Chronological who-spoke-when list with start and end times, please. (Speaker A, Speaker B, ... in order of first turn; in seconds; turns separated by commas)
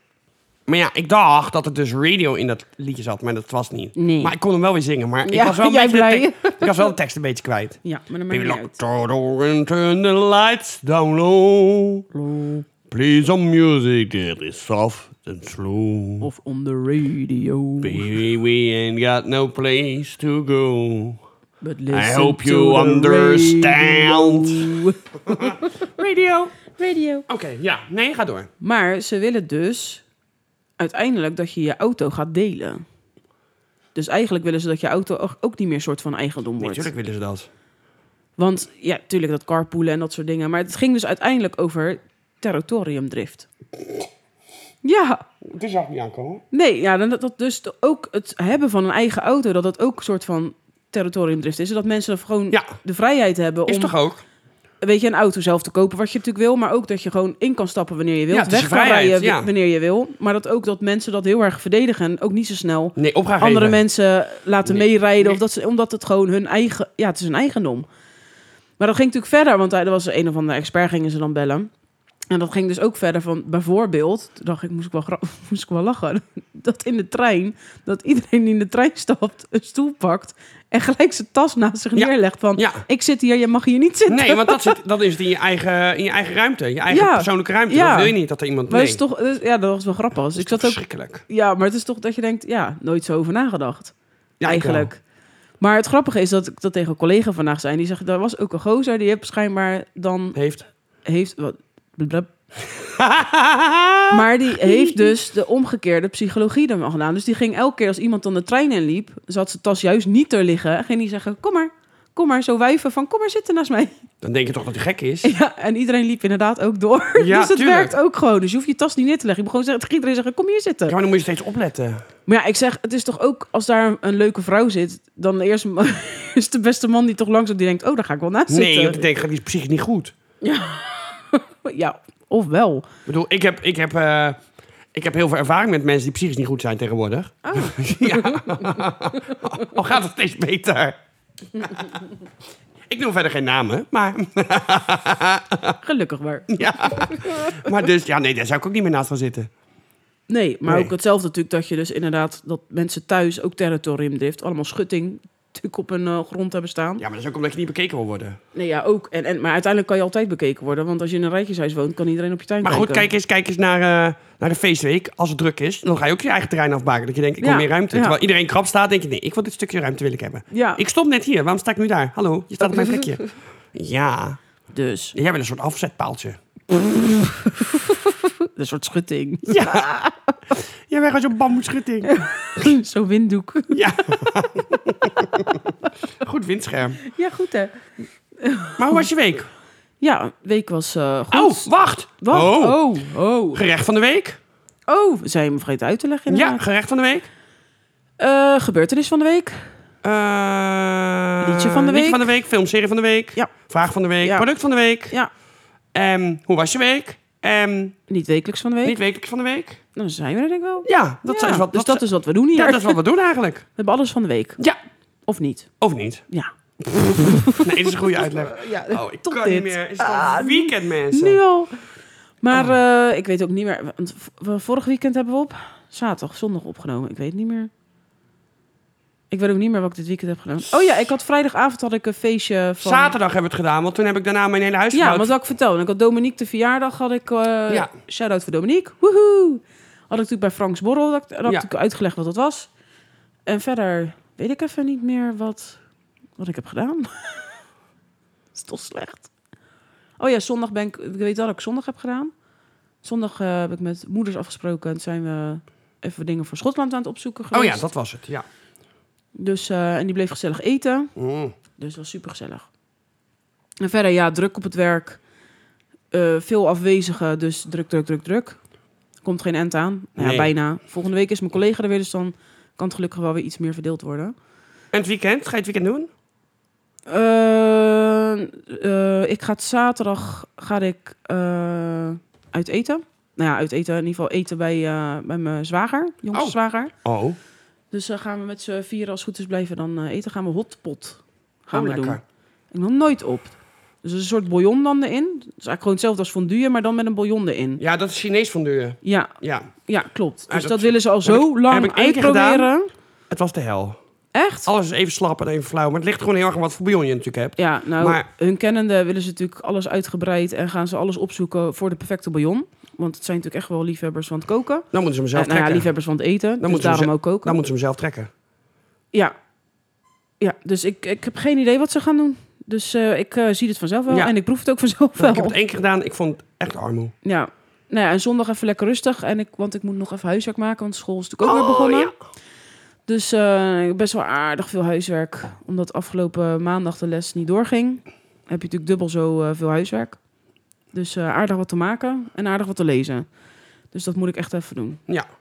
Speaker A: 0.7-12.0, Speaker B: 4.0-4.3, Speaker B: 5.2-6.9, Speaker B: 7.8-8.7, Speaker B: 12.1-12.7, Speaker A: 12.9-16.3, Speaker B: 16.2-18.2, Speaker A: 17.8-21.2, Speaker B: 21.6-25.8, Speaker A: 21.9-26.6, Speaker B: 26.7-27.2, Speaker A: 27.3-28.5, Speaker B: 28.6-30.0, Speaker B: 30.8-32.8, Speaker B: 33.9-36.9, Speaker A: 36.6-37.5, Speaker B: 38.4-43.5, Speaker B: 44.8-45.2, Speaker A: 45.4-46.4, Speaker B: 46.5-53.9, Speaker A: 53.6-54.2, Speaker B: 54.8-67.8, Speaker A: 58.3-59.5, Speaker A: 63.0-63.8, Speaker A: 64.6-65.4, Speaker B: 68.8-71.7, Speaker B: 72.3-84.8, Speaker A: 81.9-82.8, Speaker A: 84.1-89.0, Speaker B: 86.9-88.1, Speaker B: 88.7-93.9, Speaker A: 90.4-91.2, Speaker A: 94.4-94.9, Speaker B: 94.4-95.0, Speaker B: 95.6-100.4, Speaker A: 100.3-100.6, Speaker B: 101.0-102.3, Speaker A: 102.7-105.2, Speaker B: 104.1-114.0, Speaker A: 114.2-115.3, Speaker B: 115.2-121.0, Speaker A: 117.2-117.9, Speaker A: 120.9-122.0, Speaker B: 122.3-129.0, Speaker A: 128.5-130.1, Speaker B: 130.4-132.9, Speaker A: 133.1-134.4, Speaker A: 134.9-141.0, Speaker B: 137.4-138.7, Speaker A: 141.6-141.8, Speaker A: 142.9-145.8, Speaker B: 145.8-147.5, Speaker A: 146.5-149.5, Speaker B: 150.3-157.0, Speaker A: 150.7-150.9, Speaker A: 157.0-158.4, Speaker B: 158.5-163.1, Speaker A: 162.6-174.4, Speaker B: 167.4-168.2, Speaker B: 170.5-170.8, Speaker B: 174.7-175.1, Speaker A: 175.1-176.4, Speaker B: 176.8-180.3, Speaker A: 179.4-179.9, Speaker A: 180.9-182.7, Speaker B: 182.1-184.2, Speaker A: 183.7-187.0, Speaker B: 187.0-187.8, Speaker B: 188.4-189.1, Speaker A: 188.8-189.5, Speaker B: 190.0-193.6, Speaker A: 191.3-192.8, Speaker A: 193.5-194.4, Speaker B: 194.9-196.6, Speaker A: 196.3-197.3, Speaker B: 198.2-199.7, Speaker A: 200.0-205.2, Speaker B: 201.4-202.3, Speaker B: 204.2-204.5, Speaker A: 205.9-208.0, Speaker B: 208.1-209.0, Speaker A: 208.8-209.8, Speaker B: 209.9-213.0, Speaker A: 210.8-213.7, Speaker B: 213.8-214.6, Speaker B: 215.2-215.7, Speaker A: 215.8-216.2, Speaker B: 216.3-221.8, Speaker A: 217.5-221.4, Speaker B: 222.4-227.7, Speaker B: 229.3-233.2, Speaker A: 230.7-231.1, Speaker A: 232.8-235.3, Speaker B: 234.9-242.7, Speaker B: 243.5-245.8, Speaker B: 246.4-247.5, Speaker B: 248.5-249.3, Speaker B: 250.2-252.3, Speaker B: 253.0-257.8, Speaker A: 257.5-258.4, Speaker B: 259.4-261.1, Speaker A: 261.1-261.5, Speaker B: 261.8-262.7, Speaker B: 263.8-265.2, Speaker B: 266.1-268.6, Speaker B: 269.2-274.3, Speaker A: 270.2-270.5, Speaker A: 274.9-276.1, Speaker B: 277.1-286.9, Speaker A: 286.3-287.4, Speaker B: 287.9-292.2, Speaker A: 291.7-292.2, Speaker B: 292.7-297.8, Speaker A: 297.8-299.7, Speaker B: 299.0-302.9, Speaker A: 300.5-302.7, Speaker A: 303.3-304.0, Speaker B: 304.3-304.7, Speaker A: 304.6-308.2, Speaker B: 307.6-317.6, Speaker A: 314.9-315.9, Speaker A: 316.6-318.3, Speaker B: 320.4-325.6, Speaker A: 325.2-327.1, Speaker B: 327.2-332.1, Speaker A: 331.4-332.1, Speaker B: 333.1-340.2, Speaker B: 340.9-343.3, Speaker B: 343.9-345.0